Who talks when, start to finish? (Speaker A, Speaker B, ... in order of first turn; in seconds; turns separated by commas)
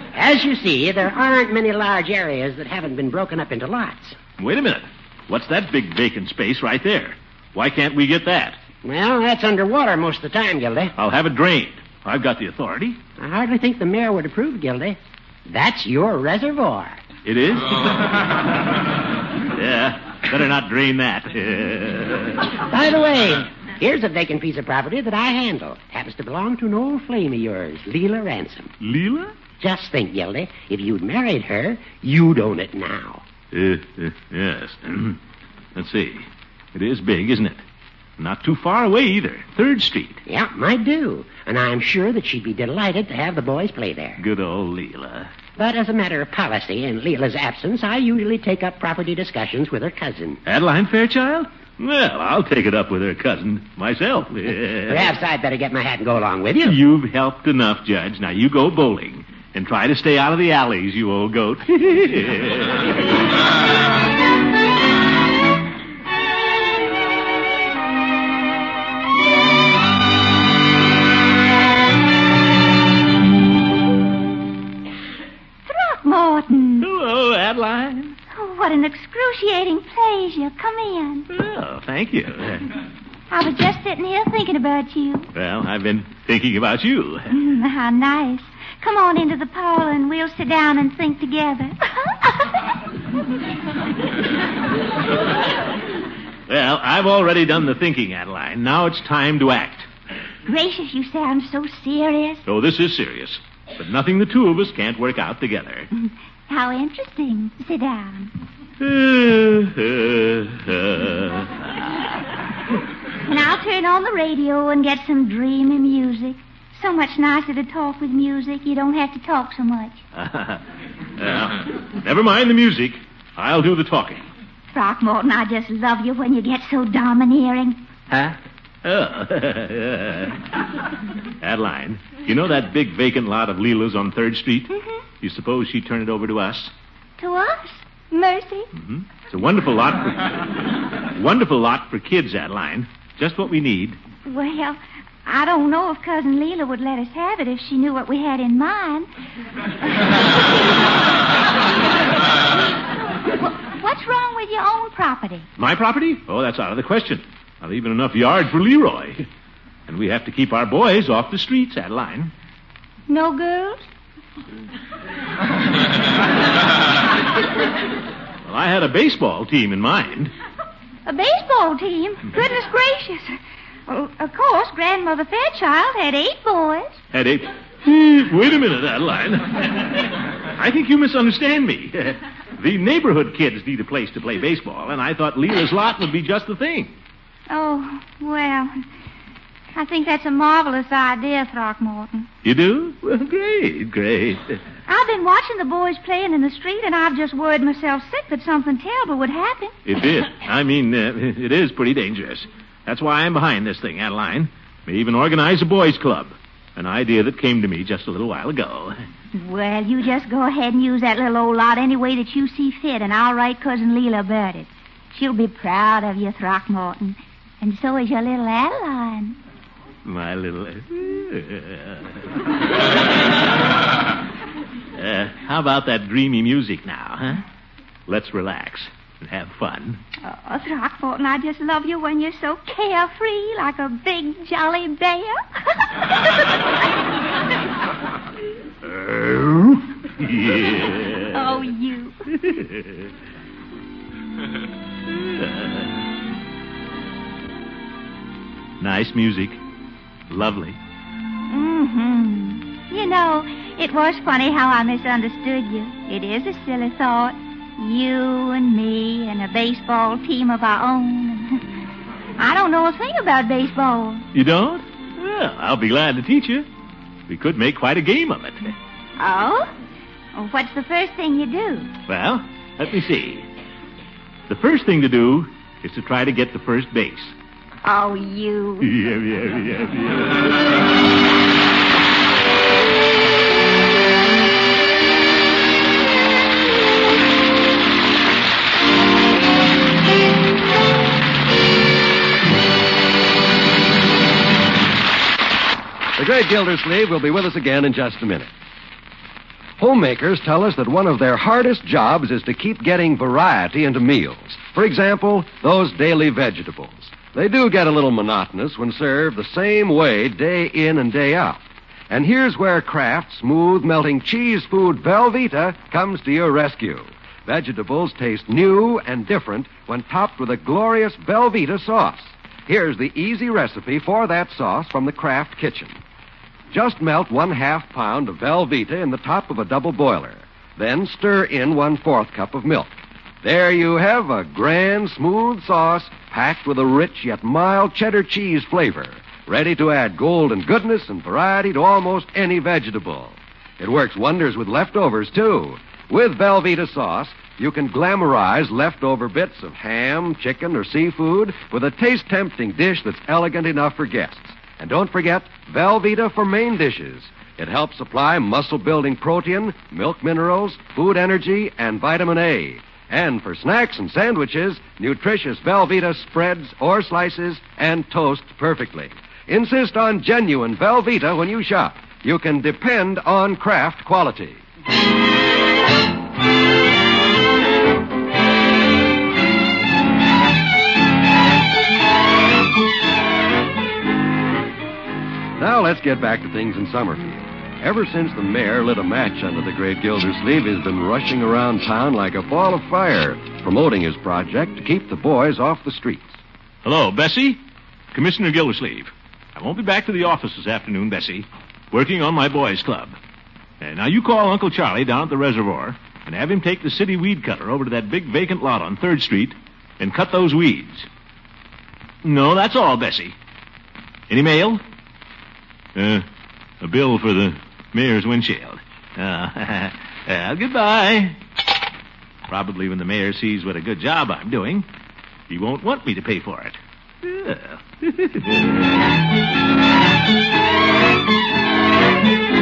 Speaker A: 0.1-4.2, Speaker B: 4.4-8.6, Speaker A: 8.8-10.9, Speaker B: 11.0-13.0, Speaker A: 13.2-17.0, Speaker B: 17.2-18.4, Speaker B: 19.5-22.4, Speaker A: 22.7-28.7, Speaker B: 28.8-29.3, Speaker A: 29.6-33.2, Speaker B: 33.5-35.2, Speaker B: 35.7-37.6, Speaker B: 38.2-40.2, Speaker A: 40.3-44.2, Speaker B: 44.2-45.3, Speaker A: 45.6-50.4, Speaker B: 50.5-55.1, Speaker A: 54.9-56.8, Speaker B: 56.6-63.0, Speaker C: 75.7-76.9, Speaker B: 76.8-78.2, Speaker C: 78.3-81.3, Speaker B: 81.3-82.7, Speaker C: 83.3-85.3, Speaker B: 85.3-87.3, Speaker C: 87.3-92.5, Speaker B: 96.5-99.9, Speaker C: 100.5-102.4, Speaker B: 102.5-105.9, Speaker C: 105.9-108.3, Speaker B: 108.8-111.5, Speaker C: 113.2-120.0, Speaker B: 120.1-120.6, Speaker B: 121.2-124.3, Speaker C: 124.7-127.8, Speaker B: 128.8-130.4, Speaker B: 131.4-134.7, Speaker C: 134.7-135.0, Speaker B: 135.2-136.7, Speaker C: 137.2-138.7, Speaker B: 138.7-140.6, Speaker B: 141.1-144.0, Speaker C: 144.2-149.1, Speaker C: 153.6-155.5, Speaker B: 155.6-159.2, Speaker B: 159.9-162.3, Speaker C: 163.1-163.9, Speaker B: 168.4-170.3, Speaker C: 171.1-177.0, Speaker B: 177.1-186.9, Speaker C: 187.5-188.8, Speaker C: 189.7-192.3, Speaker B: 192.4-194.6, Speaker C: 194.9-199.8, Speaker B: 199.8-209.0, Speaker C: 209.3-219.4, Speaker B: 220.0-222.2, Speaker B: 224.9-227.4, Speaker B: 228.1-230.0, Speaker C: 230.2-236.1, Speaker B: 238.8-241.4, Speaker C: 241.3-242.2, Speaker B: 242.3-243.1, Speaker B: 245.1-245.9, Speaker B: 248.8-249.6, Speaker B: 250.3-250.8, Speaker C: 251.5-261.6, Speaker C: 262.4-264.2, Speaker B: 264.3-266.6, Speaker B: 267.3-268.8, Speaker C: 269.2-269.7, Speaker C: 270.3-271.9, Speaker B: 272.1-273.4, Speaker B: 274.5-277.3, Speaker C: 277.8-278.9, Speaker B: 278.8-280.6, Speaker D: 296.1-298.5, Speaker D: 299.8-326.0, Speaker D: 326.7-332.9, Speaker D: 333.4-374.6, Speaker D: 385.6-396.4, Speaker B: 396.8-397.6, Speaker B: 398.1-403.2, Speaker B: 403.8-411.1, Speaker B: 412.2-413.3, Speaker B: 414.3-414.8, Speaker B: 415.9-416.2, Speaker B: 416.8-421.4, Speaker B: 422.5-424.9, Speaker B: 425.5-428.7